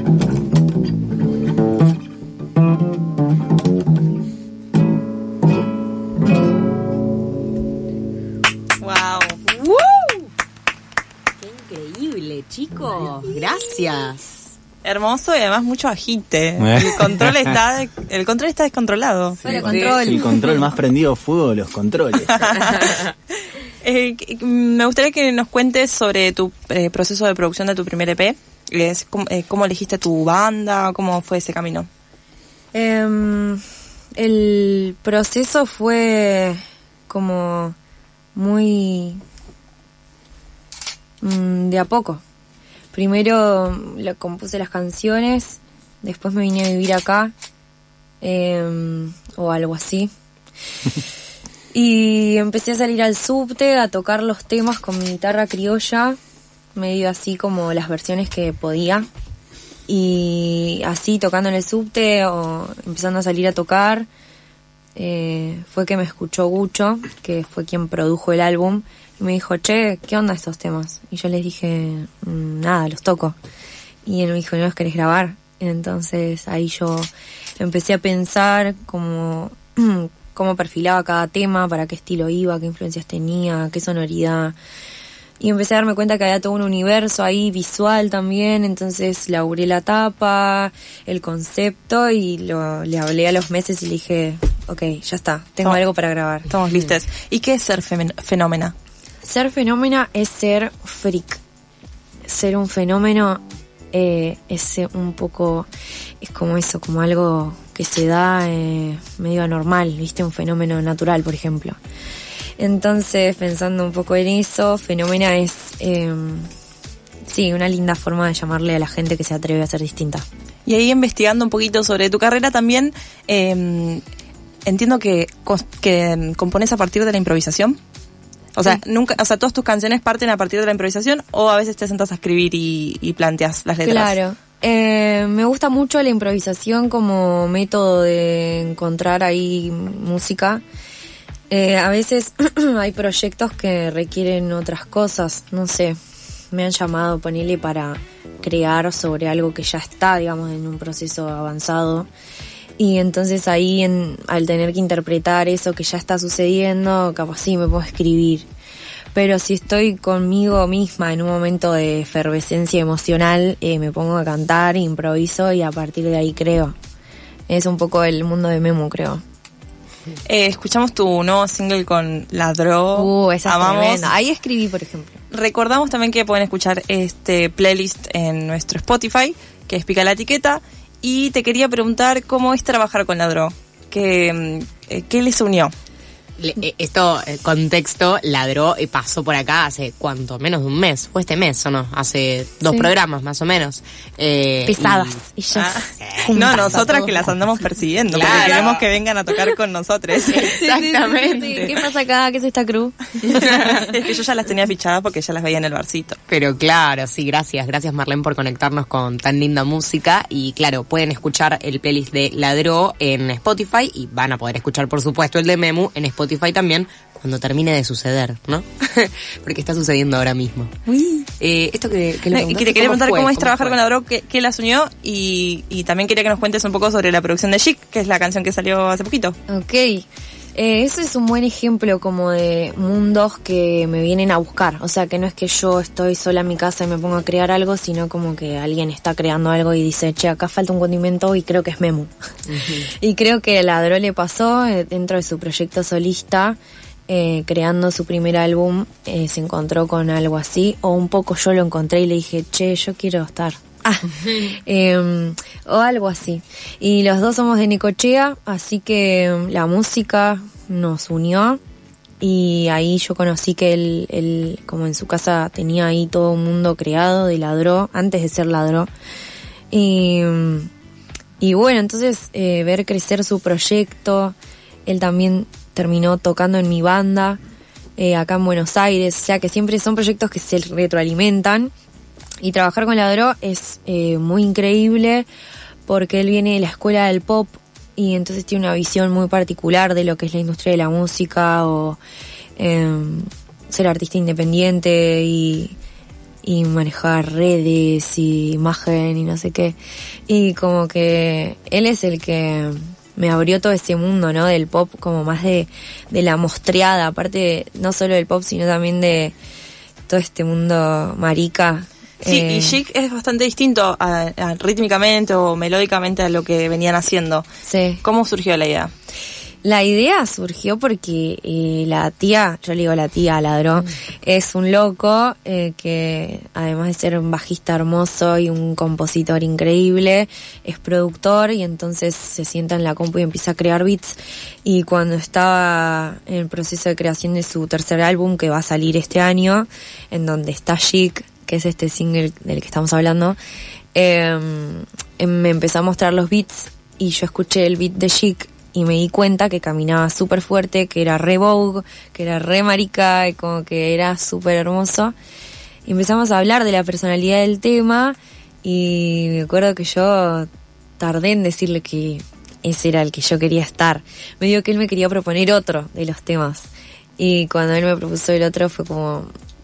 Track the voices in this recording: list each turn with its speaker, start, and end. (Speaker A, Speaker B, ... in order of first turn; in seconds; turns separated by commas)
Speaker A: 8.8-9.4, Speaker B: 9.5-10.2, Speaker C: 11.4-14.2, Speaker B: 13.4-14.1, Speaker A: 14.8-19.4, Speaker D: 16.6-17.5, Speaker D: 19.4-22.9, Speaker B: 19.4-20.7, Speaker C: 19.5-20.2, Speaker A: 22.3-23.0, Speaker A: 23.8-31.9, Speaker B: 32.7-33.6, Speaker B: 34.2-37.8, Speaker B: 38.3-39.2, Speaker B: 41.2-42.2, Speaker B: 42.9-47.3, Speaker B: 48.2-50.1, Speaker B: 51.7-56.2, Speaker B: 56.8-59.1, Speaker B: 59.9-64.1, Speaker B: 65.0-73.4, Speaker B: 74.1-84.6, Speaker B: 85.4-96.5, Speaker A: 96.5-98.7, Speaker B: 99.2-101.4, Speaker B: 102.3-105.7, Speaker B: 106.2-111.8, Speaker B: 112.6-116.5, Speaker B: 117.3-120.3, Speaker A: 120.7-124.0, Speaker A: 124.7-127.8, Speaker A: 128.6-134.2, Speaker B: 133.8-140.6, Speaker B: 141.5-146.0, Speaker B: 146.5-152.1, Speaker B: 152.8-158.5, Speaker B: 159.1-166.8, Speaker B: 167.5-169.2, Speaker A: 170.3-174.1, Speaker B: 172.9-175.2, Speaker A: 175.3-185.7, Speaker C: 186.4-195.2, Speaker B: 192.7-192.9, Speaker B: 194.7-197.3, Speaker A: 195.6-200.5, Speaker C: 196.0-196.9, Speaker C: 198.1-198.8, Speaker B: 198.2-198.7, Speaker C: 200.2-201.8, Speaker B: 200.3-204.0, Speaker A: 203.3-206.2, Speaker C: 206.3-220.7, Speaker B: 220.9-221.3, Speaker C: 221.4-223.8, Speaker A: 222.3-229.4, Speaker B: 229.5-242.1, Speaker C: 242.5-242.9, Speaker B: 242.8-261.6, Speaker B: 262.2-268.9, Speaker B: 269.7-270.7, Speaker B: 271.4-277.4, Speaker B: 278.0-281.7, Speaker B: 282.4-285.3, Speaker B: 285.9-292.0, Speaker B: 292.6-295.8, Speaker B: 296.4-309.4, Speaker B: 310.1-312.8, Speaker A: 312.2-317.4, Speaker B: 317.7-318.0, Speaker A: 318.0-318.9, Speaker B: 319.6-343.4, Speaker B: 343.9-355.1, Speaker B: 355.9-360.5, Speaker B: 361.0-369.3